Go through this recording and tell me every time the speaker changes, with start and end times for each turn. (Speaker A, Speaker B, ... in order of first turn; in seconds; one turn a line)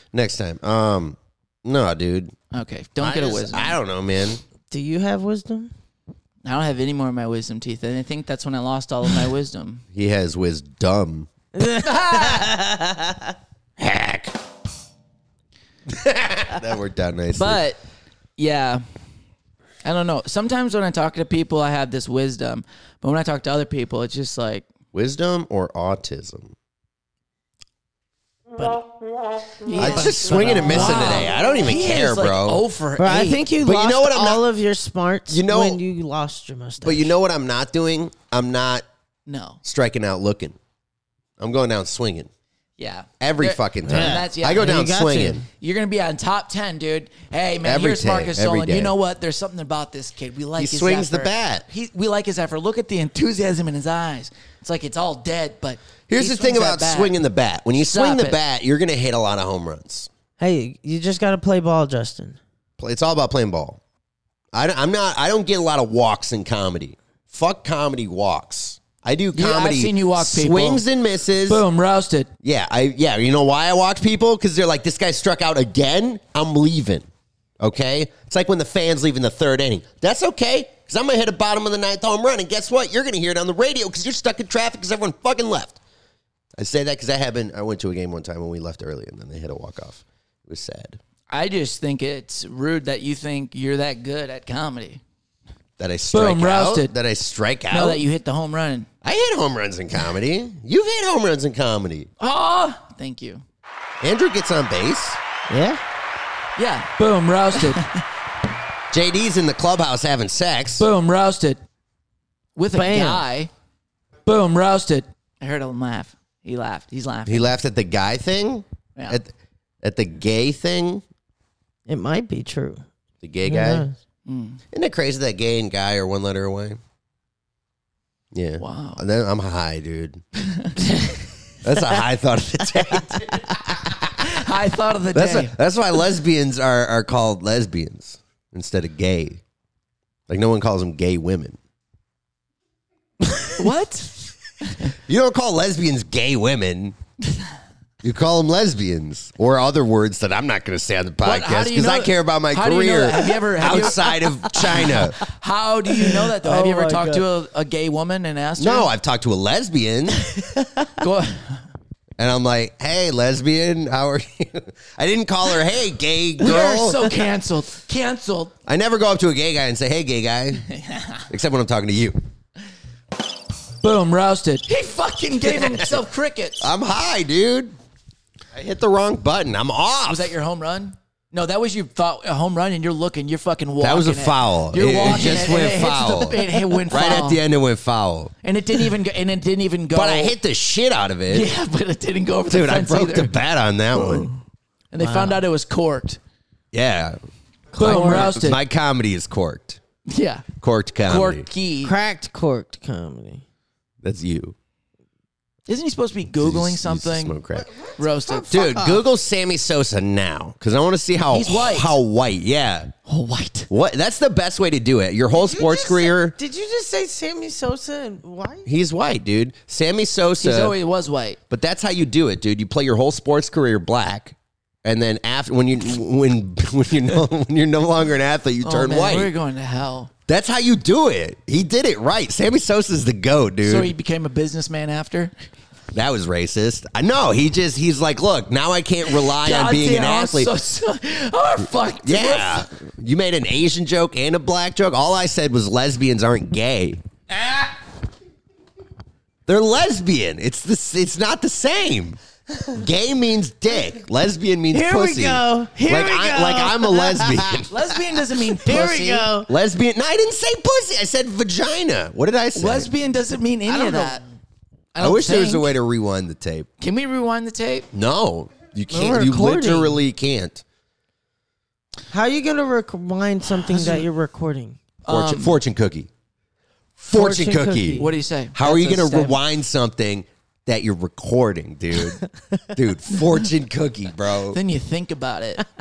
Speaker A: 0.1-2.4
Speaker B: 2.5-3.8
Speaker A: 3.0-4.4
Speaker C: 4.7-5.7
Speaker B: 6.5-9.8
Speaker A: 9.9-11.3
Speaker C: 11.6-13.3
Speaker B: 11.8-12.4
Speaker A: 13.8-14.3
Speaker A: 15.9-17.6
Speaker B: 17.4-17.8
Speaker B: 18.4-18.8
Speaker B: 19.8-24.6
Speaker A: 24.9-26.5
Speaker C: 28.6-28.9
Speaker B: 29.6-33.5
Speaker C: 29.7-31.4
Speaker A: 29.8-32.6
Speaker C: 33.0-37.1
Speaker A: 33.6-34.5
Speaker A: 35.3-35.8
Speaker A: 36.8-38.9
Speaker B: 39.3-39.6
Speaker A: 39.6-40.6
Speaker A: 41.4-42.3
Speaker B: 42.8-44.9
Speaker A: 43.2-45.5
Speaker C: 43.9-45.4
Speaker B: 45.6-57.2
Speaker A: 47.6-48.9
Speaker A: 50.6-51.6
Speaker A: 56.1-60.1
Speaker B: 57.8-58.4
Speaker C: 60.4-62.4
Speaker A: 62.8-63.8
Speaker A: 64.5-71.6
Speaker B: 69.3-70.8
Speaker B: 71.5-72.3
Speaker A: 72.4-77.1
Speaker A: 77.6-85.8
Speaker A: 86.6-91.0
Speaker B: 91.3-95.0
Speaker A: 95.8-98.0
Speaker B: 96.1-96.9
Speaker B: 97.7-98.9
Speaker A: 99.0-102.1
Speaker B: 102.2-103.4
Speaker A: 104.0-105.2
Speaker C: 105.5-105.8
Speaker B: 106.6-108.0
Speaker A: 108.9-110.9
Speaker B: 110.8-111.6
Speaker B: 112.6-113.5
Speaker C: 112.7-113.2
Speaker B: 114.3-117.5
Speaker A: 117.3-121.0
Speaker C: 121.9-122.8
Speaker A: 123.2-123.9
Speaker C: 123.5-124.0
Speaker B: 124.3-124.6
Speaker A: 124.7-126.8
Speaker A: 128.3-130.2
Speaker B: 128.6-129.0
Speaker B: 130.5-131.2
Speaker A: 131.6-134.2
Speaker B: 134.2-135.6
Speaker A: 135.1-139.4
Speaker A: 140.3-141.6
Speaker B: 143.6-144.9
Speaker A: 145.1-147.0
Speaker A: 148.0-155.2
Speaker B: 151.2-158.9
Speaker C: 156.0-157.2
Speaker A: 158.6-160.5
Speaker C: 160.6-160.9
Speaker B: 161.0-161.6
Speaker A: 162.2-167.1
Speaker B: 166.4-168.5
Speaker A: 168.7-170.7
Speaker B: 170.7-171.2
Speaker A: 171.3-172.2
Speaker B: 173.8-176.7
Speaker A: 175.4-176.0
Speaker A: 176.6-177.7
Speaker A: 178.5-180.3
Speaker B: 180.1-187.4
Speaker A: 183.8-188.3
Speaker B: 188.4-190.3
Speaker A: 189.9-191.5
Speaker B: 191.3-193.3
Speaker A: 192.5-194.3
Speaker B: 193.9-194.4
Speaker B: 194.9-196.2
Speaker C: 195.0-195.4
Speaker A: 196.7-197.2
Speaker B: 197.7-198.6
Speaker A: 197.8-199.8
Speaker C: 197.8-198.3
Speaker B: 200.1-200.4
Speaker A: 200.6-201.5
Speaker B: 201.1-201.9
Speaker C: 201.8-203.4
Speaker A: 204.0-204.6
Speaker B: 205.7-207.4
Speaker A: 206.3-207.7
Speaker B: 208.0-208.9
Speaker C: 208.3-209.0
Speaker A: 208.5-212.9
Speaker B: 211.3-211.9
Speaker B: 213.1-213.7
Speaker A: 213.7-216.4
Speaker C: 215.3-218.7
Speaker A: 218.7-220.8
Speaker B: 220.4-221.4
Speaker A: 221.5-229.3
Speaker B: 228.6-230.1
Speaker A: 230.3-233.9
Speaker B: 233.6-235.3
Speaker A: 235.9-240.5
Speaker B: 239.1-242.7
Speaker A: 242.0-247.0
Speaker A: 249.5-257.7
Speaker C: 254.7-257.7
Speaker B: 257.7-259.3
Speaker C: 258.5-259.5
Speaker A: 258.8-262.9
Speaker B: 262.5-264.2
Speaker C: 263.7-264.2
Speaker B: 264.9-265.7
Speaker A: 265.0-266.7
Speaker B: 266.8-267.9
Speaker A: 267.9-270.6
Speaker C: 268.9-270.0
Speaker C: 272.1-274.8
Speaker B: 275.1-275.6
Speaker A: 275.1-276.1
Speaker A: 277.0-282.2
Speaker C: 277.1-278.1
Speaker B: 278.0-279.4
Speaker A: 282.7-284.6
Speaker B: 284.5-285.6